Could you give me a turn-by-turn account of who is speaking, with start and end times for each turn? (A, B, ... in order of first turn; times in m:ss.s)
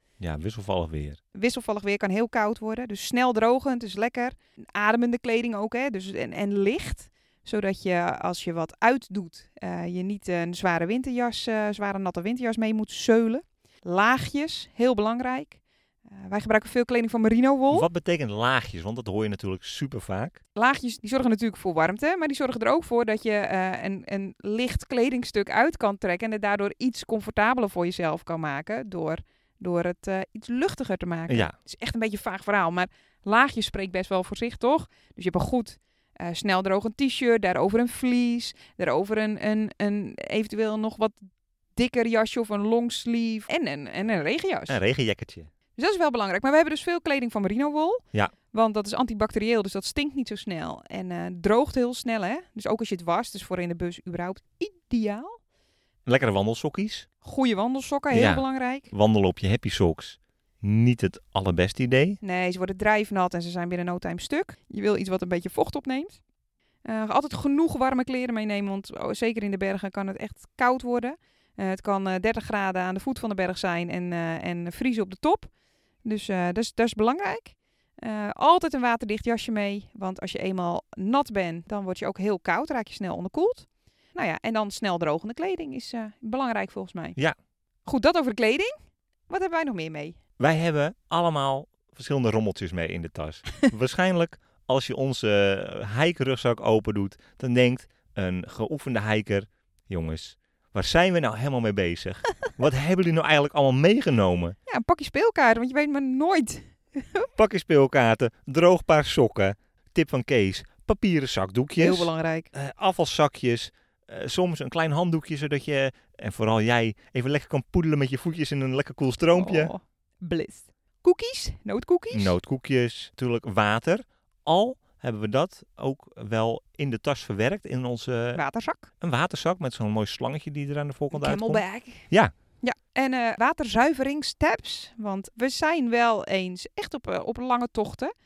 0:00.2-0:01.2 A
0:01.3-0:17.9 B
0:17.7-0:20.4 A
0:20.5-0:41.2 B
0:31.3-0:31.5 A
0:41.8-0:44.8 B
0:44.7-0:45.5 A
0:45.8-0:55.4 B
0:56.0-0:57.1 A
0:57.2-0:58.9 B
0:58.1-1:02.2 A
1:02.2-1:06.2 B
1:06.8-1:15.5 B
1:16.0-1:27.2 B
1:27.8-1:28.7 B
1:29.3-1:30.2 B
1:30.4-1:44.6 A
1:44.7-1:47.3 B
1:47.3-1:59.7 A
1:51.8-1:52.5 B
1:59.3-2:02.3 B
2:02.1-2:08.4 A
2:08.3-2:08.9 B
2:09.0-2:12.3 A
2:11.1-2:12.1 B
2:12.6-2:18.1 B